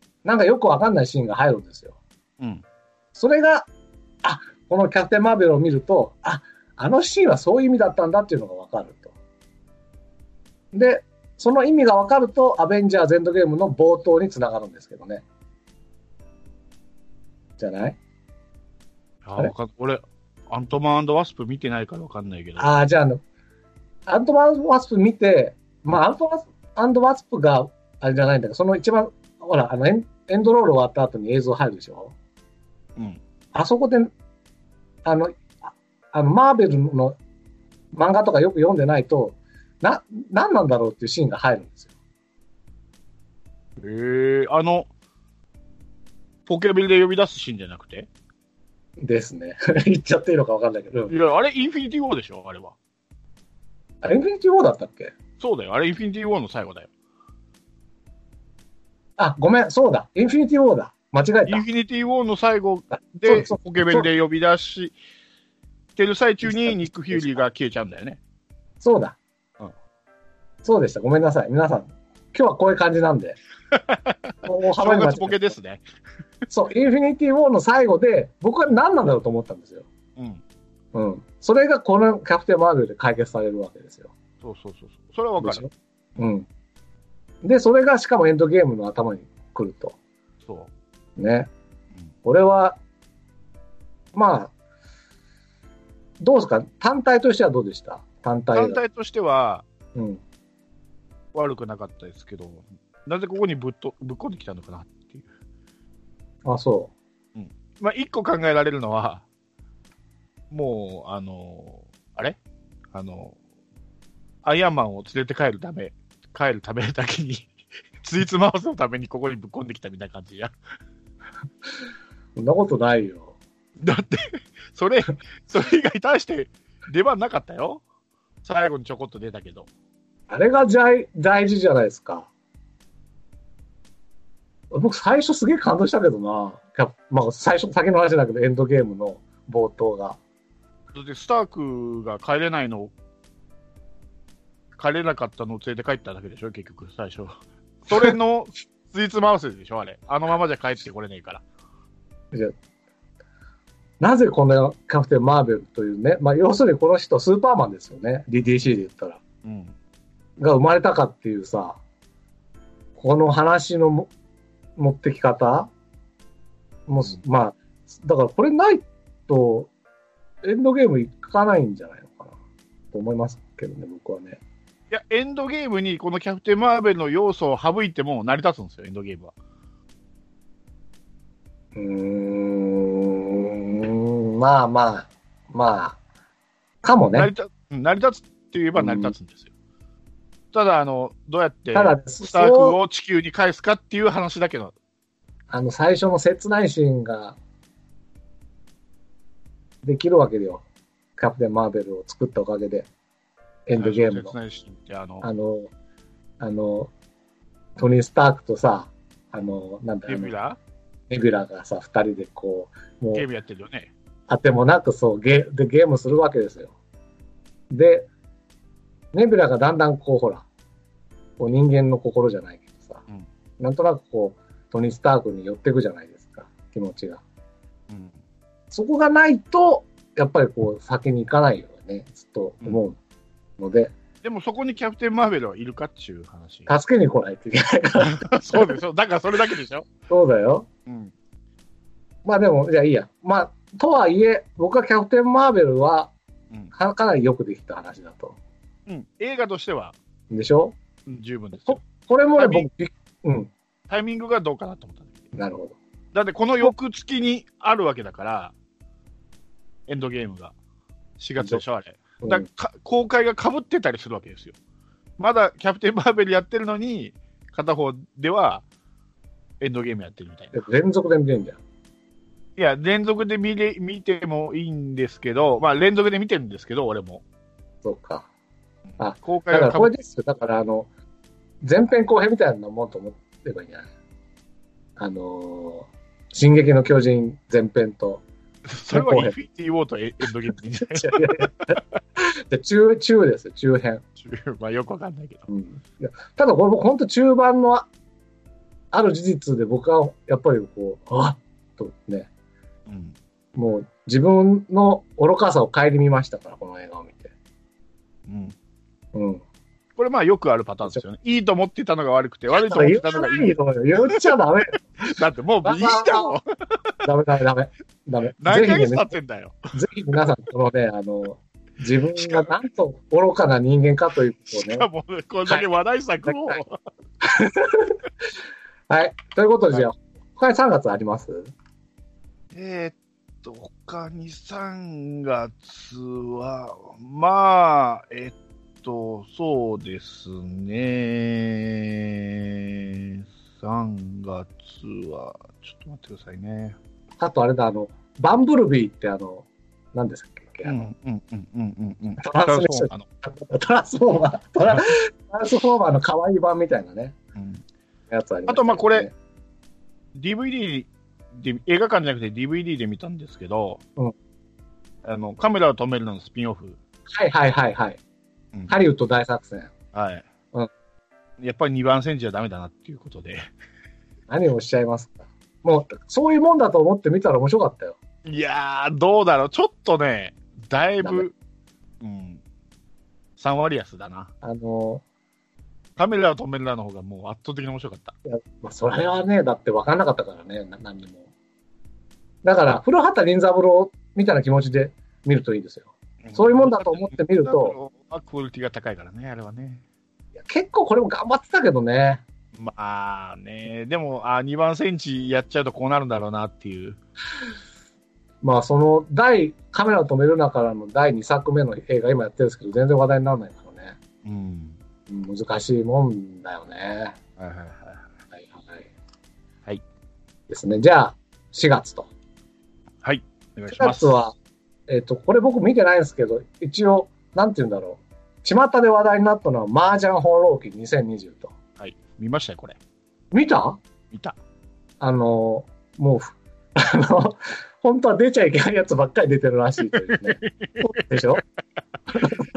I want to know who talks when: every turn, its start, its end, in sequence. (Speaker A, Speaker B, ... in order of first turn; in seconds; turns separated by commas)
Speaker A: 0.2-2.0, Speaker A: 3.1-3.7, Speaker A: 4.2-9.1, Speaker A: 10.7-15.2, Speaker A: 17.6-18.0, Speaker B: 19.2-22.7, Speaker A: 22.6-23.2, Speaker A: 24.1-32.1, Speaker A: 33.5-34.1, Speaker A: 35.0-37.2, Speaker A: 37.9-41.9, Speaker B: 43.8-44.9, Speaker B: 46.5-48.1, Speaker A: 49.0-51.1, Speaker B: 51.1-52.8, Speaker A: 54.0-55.1, Speaker B: 55.4-56.9, Speaker A: 59.2-61.6, Speaker B: 61.5-65.0, Speaker A: 63.2-64.1, Speaker B: 66.0-68.2, Speaker A: 66.4-67.4, Speaker A: 68.8-69.2, Speaker A: 70.6-73.4, Speaker B: 73.7-75.8, Speaker A: 74.5-75.5, Speaker A: 76.5-79.9, Speaker B: 80.2-80.4, Speaker A: 80.9-84.1, Speaker B: 84.4-85.7, Speaker A: 85.4-86.5, Speaker A: 87.4-90.0, Speaker B: 90.4-90.7, Speaker A: 91.2-91.5, Speaker A: 92.2-92.8, Speaker A: 94.1-94.5, Speaker A: 96.2-98.8, Speaker B: 98.5-99.7, Speaker A: 100.0-100.2, Speaker B: 101.3-105.3, Speaker A: 106.5-106.9, Speaker B: 107.3-109.2, Speaker B: 110.5-112.4, Speaker B: 112.9-113.4, Speaker B: 114.4-120.5, Speaker A: 122.4-123.3, Speaker B: 123.8-127.8, Speaker B: 128.4-129.7, Speaker A: 130.3-132.3, Speaker A: 134.7-140.2, Speaker B: 140.9-142.9, Speaker B: 144.8-151.4, Speaker A: 154.0-159.2, Speaker B: 159.4-159.8, Speaker A: 160.4-161.8, Speaker A: 163.0-164.1, Speaker A: 164.8-165.7, Speaker A: 166.9-169.7, Speaker A: 170.4-172.3, Speaker A: 172.9-174.4, Speaker B: 174.9-179.3, Speaker A: 181.8-186.0, Speaker A: 186.8-187.3, Speaker B: 187.2-189.5, Speaker A: 188.8-189.1, Speaker B: 190.5-194.7, Speaker A: 191.7-192.8, Speaker A: 195.5-197.4, Speaker A: 199.8-200.6, Speaker A: 201.2-202.9, Speaker A: 203.7-204.3, Speaker B: 203.8-205.3, Speaker A: 205.2-205.7, Speaker A: 206.4-206.9, Speaker A: 207.8-210.3, Speaker B: 210.1-210.6, Speaker A: 211.1-213.3, Speaker B: 213.1-213.9, Speaker A: 214.3-216.7, Speaker A: 217.7-218.1, Speaker A: 219.1-220.4, Speaker A: 221.4-223.0, Speaker A: 223.6-227.2, Speaker B: 227.9-228.2, Speaker A: 228.7-233.0, Speaker A: 233.6-233.9, Speaker B: 234.2-236.7, Speaker A: 236.7-238.8, Speaker B: 238.0-239.9, Speaker A: 240.1-240.7, Speaker B: 240.9-241.1, Speaker A: 242.2-246.1, Speaker A: 246.7-248.4, Speaker B: 248.9-250.0, Speaker A: 250.3-250.8, Speaker B: 251.1-251.8, Speaker A: 251.7-253.5, Speaker B: 252.4-252.7, Speaker B: 253.9-255.2, Speaker A: 255.3-255.8, Speaker B: 256.1-258.5, Speaker B: 259.9-260.5, Speaker B: 261.2-264.6, Speaker B: 265.2-268.6, Speaker B: 269.6-270.6, Speaker A: 270.5-271.6, Speaker B: 272.6-277.2, Speaker A: 277.8-278.3, Speaker A: 279.0-280.9, Speaker B: 279.1-279.9, Speaker A: 281.6-283.9, Speaker A: 285.0-288.2, Speaker B: 288.7-291.8, Speaker A: 288.9-289.4, Speaker A: 290.8-294.0, Speaker B: 294.2-295.5, Speaker A: 295.5-297.9, Speaker A: 298.9-302.3, Speaker B: 302.9-303.2, Speaker A: 303.6-307.3, Speaker B: 308.3-308.6, Speaker A: 309.1-309.4, Speaker B: 310.0-313.6, Speaker A: 312.5-314.8, Speaker B: 315.0-316.9, Speaker A: 315.6-316.4, Speaker A: 317.0-319.1, Speaker B: 318.4-319.6, Speaker A: 319.7-324.9, Speaker B: 322.2-322.5, Speaker B: 324.5-326.8, Speaker A: 326.3-326.6, Speaker A: 327.2-328.0, Speaker A: 328.9-331.5, Speaker B: 332.5-346.8, Speaker A: 347.2-350.9, Speaker B: 350.6-353.1, Speaker A: 352.2-357.2, Speaker B: 357.4-357.6, Speaker A: 358.1-359.1, Speaker B: 358.5-359.1, Speaker B: 360.1-363.8, Speaker B: 365.0-366.8, Speaker A: 367.1-368.0, Speaker A: 368.7-369.7, Speaker B: 369.9-370.3, Speaker B: 371.4-373.5, Speaker A: 374.3-378.0, Speaker B: 378.2-381.3, Speaker A: 381.0-381.2, Speaker B: 382.0-382.4, Speaker B: 383.4-384.3, Speaker A: 384.4-385.0, Speaker B: 386.0-388.1, Speaker A: 388.2-391.2, Speaker A: 392.4-397.8, Speaker B: 396.2-399.8, Speaker A: 400.4-402.2, Speaker B: 402.5-407.0, Speaker A: 408.4-414.0, Speaker B: 414.2-414.8, Speaker A: 415.1-417.2, Speaker B: 417.4-418.1, Speaker A: 418.3-418.9, Speaker A: 420.5-422.1, Speaker B: 423.0-424.2, Speaker A: 423.7-424.4, Speaker A: 424.9-431.5, Speaker B: 431.8-432.8, Speaker A: 433.3-433.8, Speaker B: 434.1-434.4, Speaker A: 435.0-441.4, Speaker B: 440.1-441.4, Speaker A: 442.1-442.5